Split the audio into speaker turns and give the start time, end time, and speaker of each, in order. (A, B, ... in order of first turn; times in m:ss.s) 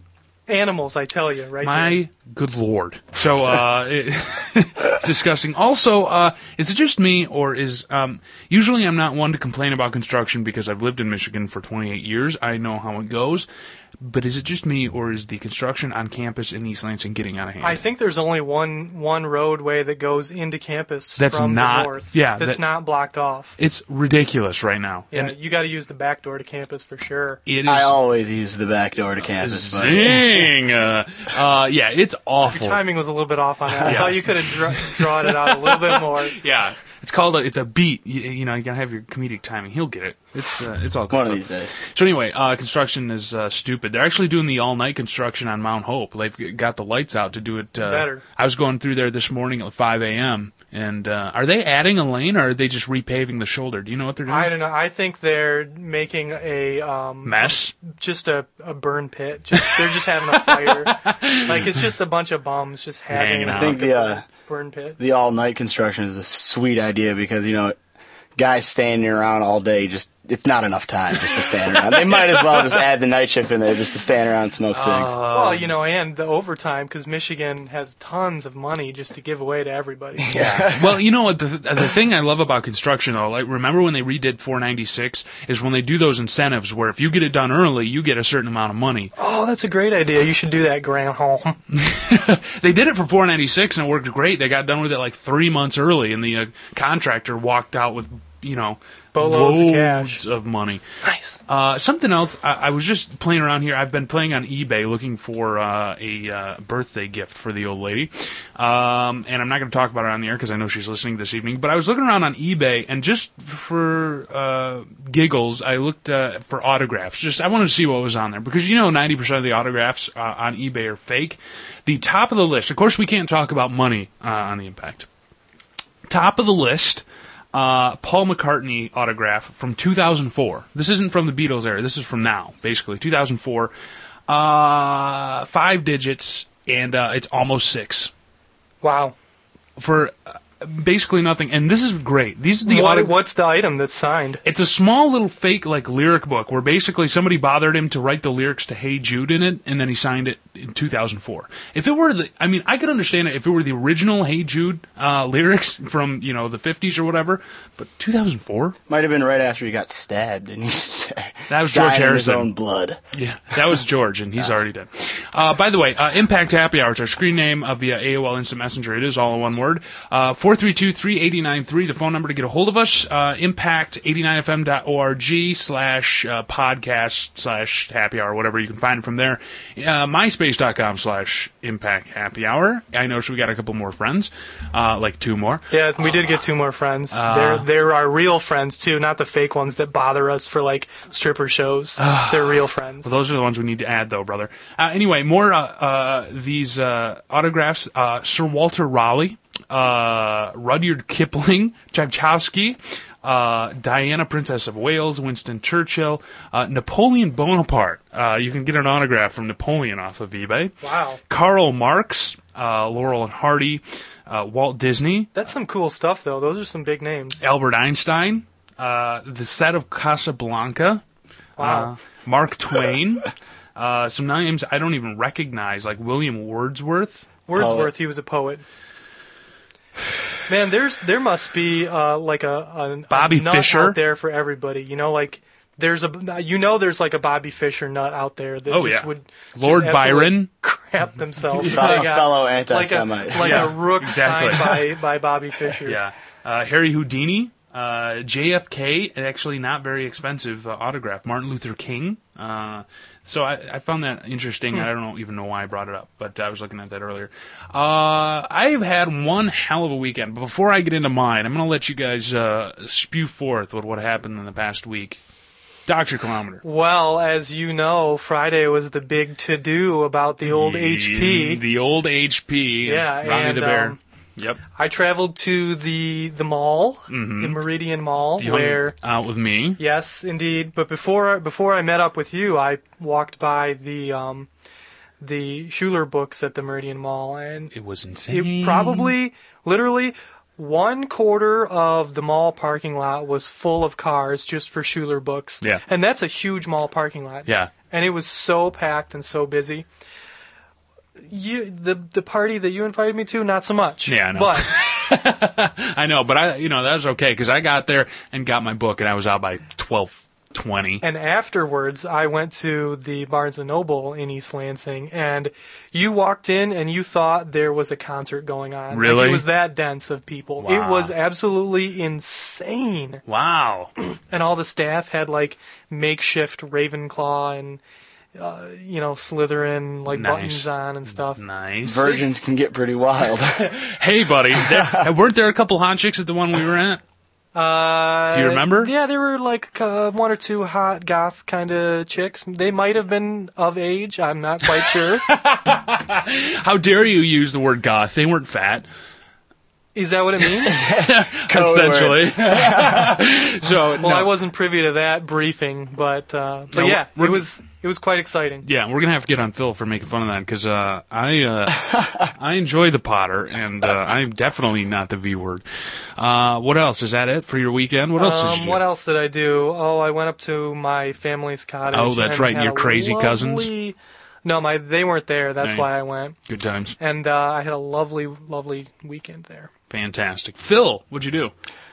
0:00.5-0:02.0 A
0:01.6-0:13.5 B
0:14.0-0:17.8 B
0:17.6-0:23.6 A
0:21.2-0:22.6 B
0:23.6-0:25.3 B
0:25.1-0:27.4 A
0:27.4-0:28.0 B
0:27.7-0:30.5 C
0:29.4-0:32.8 B
0:32.4-0:36.4 A
0:33.8-0:54.5 B
0:41.1-0:41.7 C
0:47.8-0:48.2 A
0:54.3-1:05.0 A
0:57.2-0:57.7 B
1:00.7-1:01.8 B
1:03.1-1:03.8 B
1:03.4-1:04.2 C
1:05.0-1:07.8 C
1:08.4-1:15.1 C
1:11.8-1:12.8 B
1:14.7-1:15.7 B
1:15.3-1:20.4 A
1:20.2-1:21.0 C
1:20.3-1:29.1 B
1:29.2-1:31.6 A
1:31.7-1:40.8 B
1:39.1-1:40.2 A
1:41.0-1:41.4 A
1:41.5-2:05.1 B
2:06.1-2:13.7 B
2:14.3-2:18.1 B
2:18.8-2:19.2 A
2:19.8-2:23.2 B
2:22.6-2:24.4 A
2:24.4-2:38.8 B
2:38.9-2:43.0 C
2:41.5-2:42.5 B
2:43.1-3:05.7 B
3:05.7-3:13.1 A
3:07.1-3:07.7 B
3:12.0-3:30.8 B
3:30.8-3:31.2 A
3:31.3-3:35.3 B
3:35.3-3:37.5 A
3:37.4-3:41.0 B
3:41.6-3:41.9 A
3:41.6-3:47.3 B
3:47.5-3:48.6 A
3:47.5-3:47.9 C
3:50.5-4:06.0 A
3:53.1-3:54.0 B
3:58.7-4:00.5 B
4:01.5-4:02.2 B
4:01.6-4:03.8 C
4:03.4-4:04.8 B
4:05.9-4:25.2 B
4:25.9-4:26.6 B
4:26.6-4:31.6 A
4:30.4-4:34.6 B
4:32.8-4:34.0 A
4:34.8-4:38.9 A
4:37.1-4:37.6 B
4:38.4-4:39.8 B
4:39.8-4:44.5 A
4:45.2-4:47.7 A
4:47.7-4:49.1 B
4:48.3-4:59.9 A
4:57.4-4:57.7 B
5:01.3-5:04.7 A
5:04.1-5:11.0 B
5:11.0-5:23.2 A
5:18.9-5:19.4 B
5:20.6-5:21.1 B
5:23.3-5:23.9 B
5:24.3-5:27.8 A
5:28.3-5:31.4 A
5:30.1-5:30.7 B
5:31.2-5:32.2 B
5:31.8-5:33.7 C
5:33.6-5:37.0 B
5:34.6-5:35.1 C
5:37.6-5:45.2 A
5:38.3-5:38.9 B
5:45.3-5:48.8 B
5:49.9-5:50.8 A
5:50.7-5:53.2 C
5:50.8-5:54.4 B
5:54.0-5:58.7 A
5:56.7-5:57.4 B
5:58.6-6:05.6 B
6:06.2-6:08.8 B
6:08.2-6:16.4 A
6:11.9-6:13.7 B
6:15.6-6:15.9 B
6:16.5-6:17.0 B
6:17.0-6:19.7 A
6:19.9-6:21.5 B